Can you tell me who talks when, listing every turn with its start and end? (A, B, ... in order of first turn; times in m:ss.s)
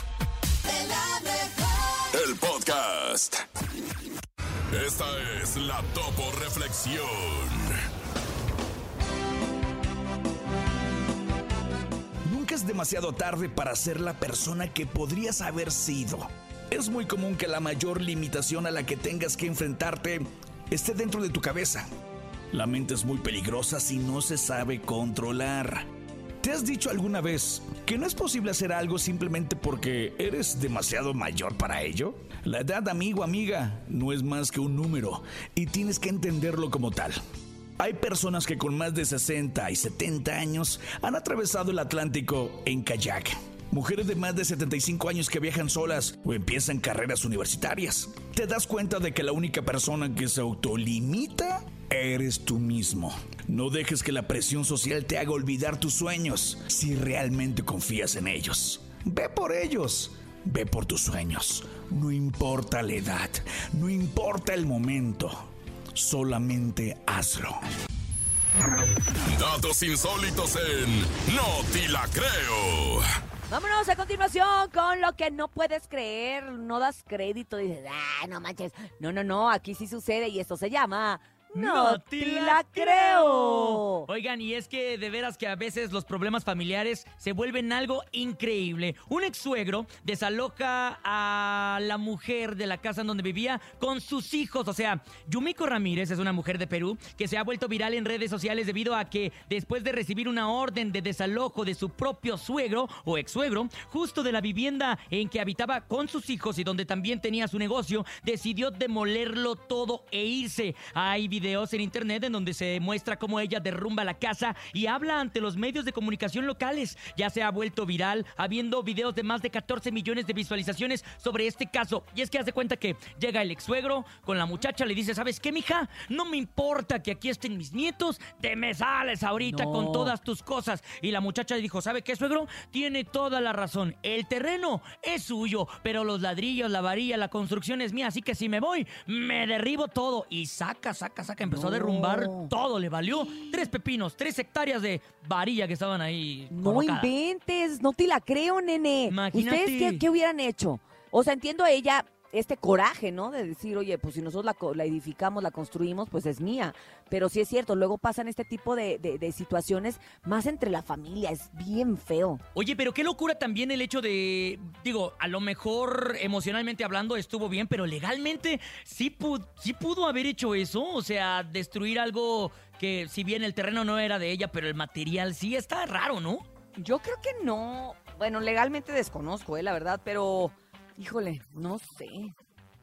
0:02.1-0:03.4 A
0:04.7-0:07.7 A
0:12.2-0:21.8 B
0:22.5-0:25.8 B
0:26.4-0:37.2 B
0:37.8-1:05.4 B
1:06.0-1:07.6 B
1:09.3-1:13.0 A
1:13.5-1:24.1 C
1:21.5-2:27.1 D
2:09.4-2:10.1 C
2:21.4-2:22.5 C
2:23.1-2:23.6 C
2:26.5-2:42.4 C
2:29.1-2:30.0 D
2:42.5-2:56.4 D
2:56.8-3:02.3 C